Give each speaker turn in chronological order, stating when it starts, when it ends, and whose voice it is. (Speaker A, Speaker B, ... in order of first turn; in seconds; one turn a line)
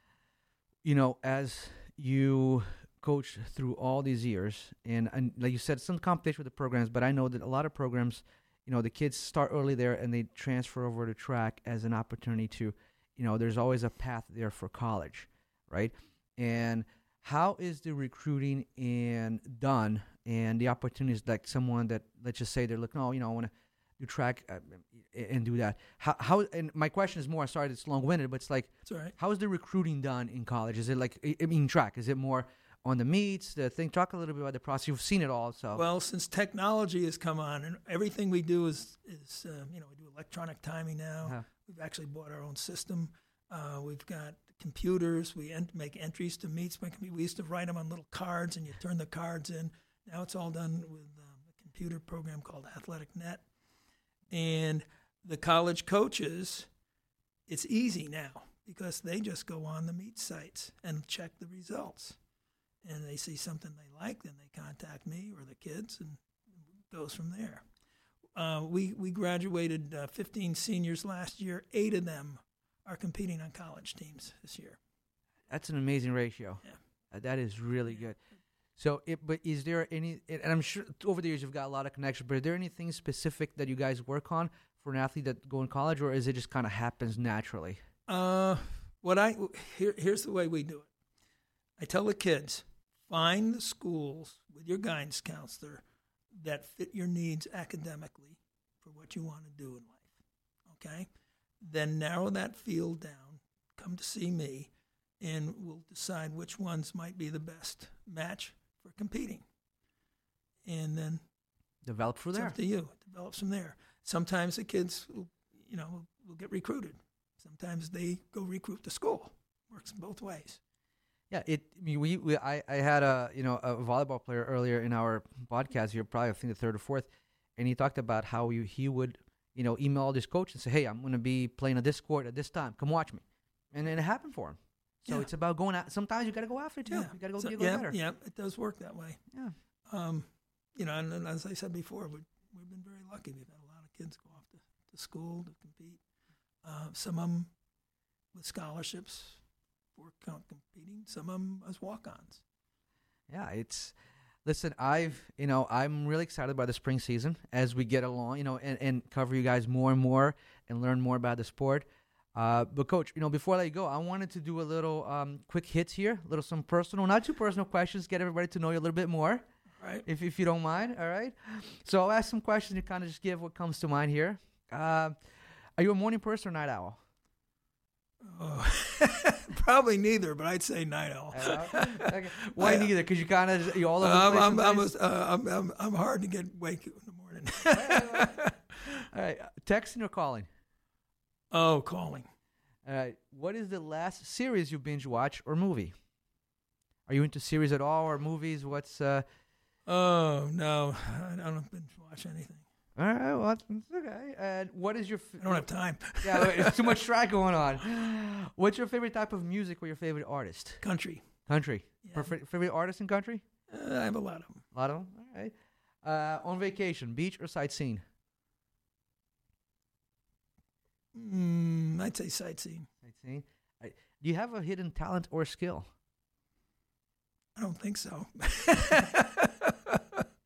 Speaker A: 0.8-35.8
Speaker B: 28.9-29.1
Speaker B: 35.7-53.5
Speaker B: 54.3-56.7
Speaker B: 57.5-62.2
Speaker B: 62.8-66.2
Speaker B: 66.8-67.7
Speaker B: 68.3-74.8
Speaker A: 75.5-78.2
Speaker A: 78.8-87.8
Speaker B: 88.1-90.9
Speaker B: 91.8-100.2
Speaker B: 100.7-101.1
Speaker B: 101.6-109.4
Speaker B: 110.6-111.2
Speaker A: 111.8-112.6
Speaker B: 112.3-120.6
Speaker A: 121.3-137.9
Speaker B: 136.9-139.2
Speaker B: 139.9-146.0
Speaker B: 146.6-147.5
Speaker B: 148.3-149.4
Speaker B: 149.9-152.4
Speaker A: 153.3-169.4
Speaker B: 169.8-170.1
Speaker A: 170.1-175.2
Speaker A: 175.8-177.0
Speaker B: 178.2-182.9
Speaker A: 181.3-184.9
Speaker B: 184.0-188.6
Speaker A: 187.7-188.3
Speaker A: 188.9-190.5
Speaker B: 191.5-192.3
Speaker A: 192.8-195.9
Speaker A: 197.1-199.2
Speaker B: 199.9-202.7
Speaker A: 203.0-205.7
Speaker B: 205.4-207.0
Speaker A: 206.2-210.8
Speaker B: 210.8-211.3
Speaker A: 211.5-213.4
Speaker B: 212.0-212.3
Speaker B: 213.7-214.6
Speaker A: 214.7-218.0
Speaker B: 221.1-222.9
Speaker A: 223.0-225.9
Speaker B: 227.6-230.2